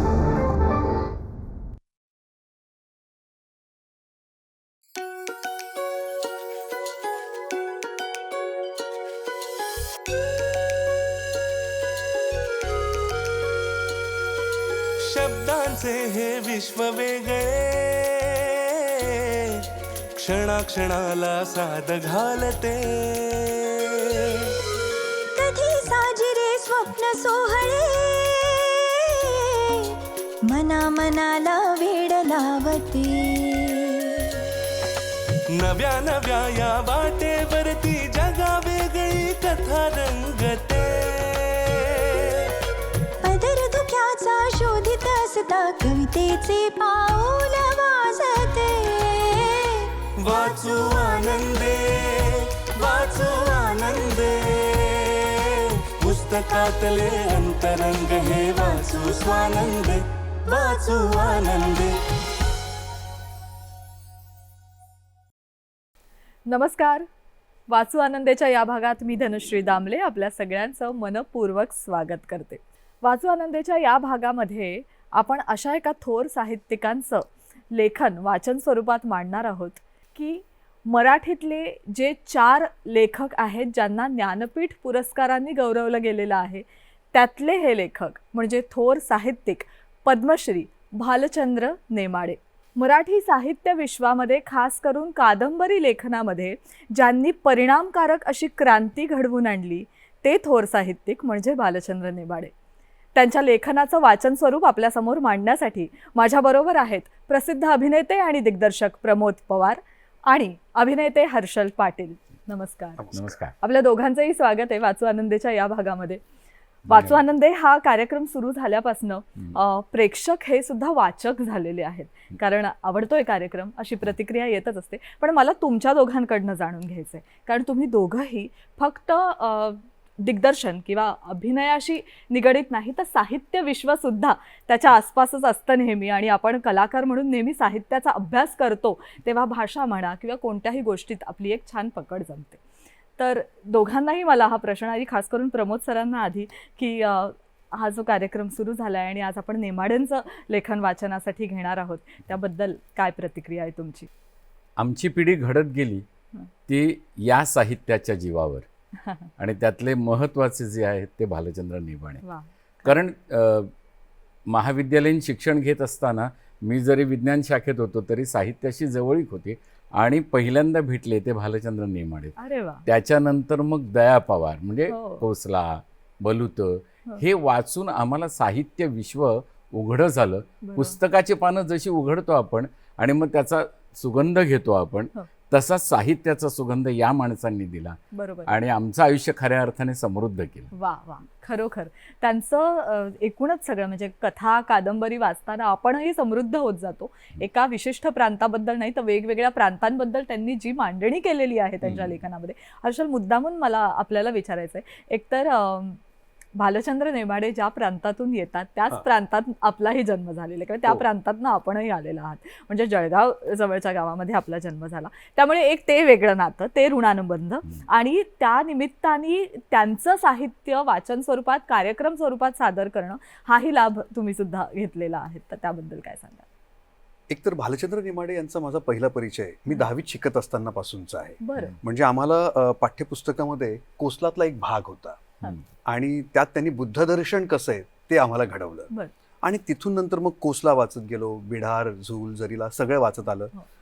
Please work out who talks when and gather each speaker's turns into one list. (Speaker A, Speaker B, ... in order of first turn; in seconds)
Speaker A: 0.3-1.0, 15.0-19.7, 20.2-24.5, 35.5-42.5, 50.2-61.9
Speaker B: 25.3-34.4, 43.2-51.0, 53.2-53.9, 58.4-59.3, 60.5-61.6
Speaker C: 66.5-67.1, 67.7-102.5, 103.2-116.2, 116.9-142.6, 143.2-154.1, 162.2-163.0, 172.4-172.8, 174.9-175.3, 180.6-181.0, 188.1-188.6, 190.7-206.0, 206.6-226.5, 231.4-231.8
Speaker D: 113.0-113.3, 227.3-235.3, 235.9-238.9, 239.4-243.5
Speaker E: 113.1-113.5, 116.9-117.2, 154.8-156.1, 156.7-158.7, 159.4-162.2, 162.8-163.7, 164.5-172.3, 172.9-190.7, 201.8-202.2